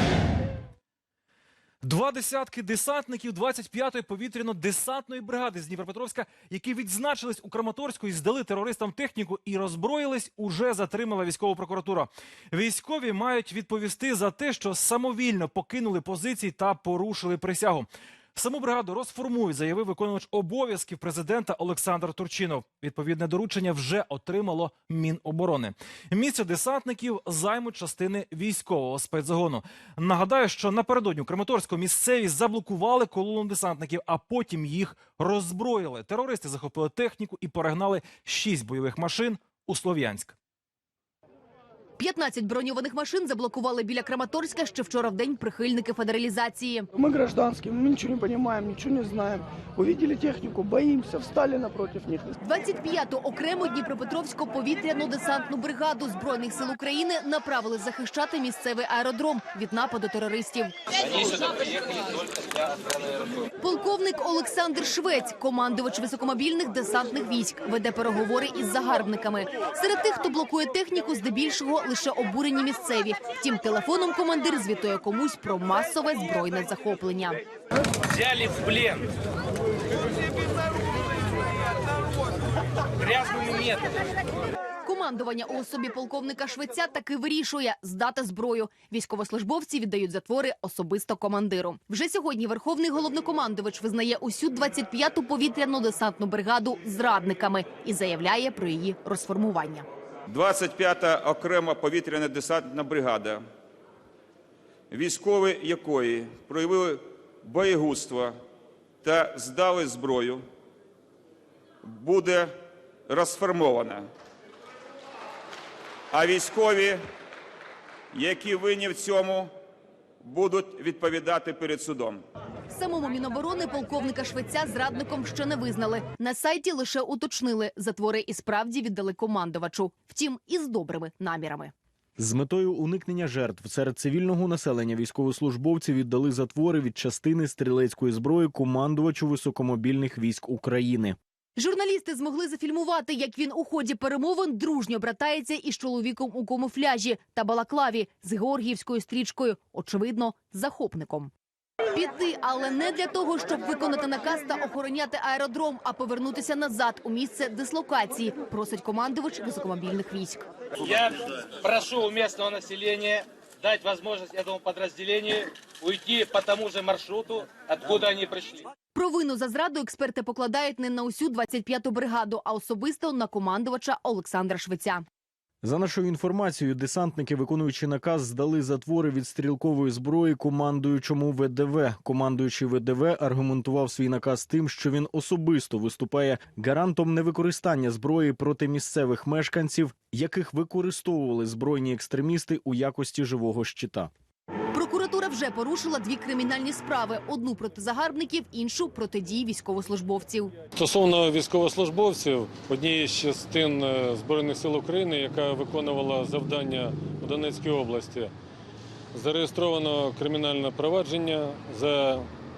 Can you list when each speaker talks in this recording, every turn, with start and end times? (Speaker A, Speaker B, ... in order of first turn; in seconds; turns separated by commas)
Speaker A: 1.8-40.4, Speaker B: 42.0-46.9, Speaker C: 46.9-52.4, Speaker B: 52.4-60.8, Speaker D: 60.9-63.5, Speaker B: 63.6-77.4, Speaker D: 78.1-79.1, Speaker D: 83.0-84.0, Speaker B: 84.8-99.8, Speaker E: 100.3-103.4, Speaker E: 104.9-108.3, Speaker E: 109.0-110.4, Speaker E: 111.9-112.5, Speaker E: 113.1-114.1, Speaker E: 116.1-117.0, Speaker E: 118.1-119.5, Speaker E: 120.2-122.2, Speaker B: 122.7-131.7, Speaker F: 132.2-141.2, Speaker B: 141.6-151.3, Speaker B: 151.9-160.4, Speaker D: 160.8-168.7, Speaker B: 168.9-175.0, Speaker F: 175.6-194.1, Speaker B: 194.7-200.5, Speaker G: 200.7-208.3, Speaker G: 209.1-212.3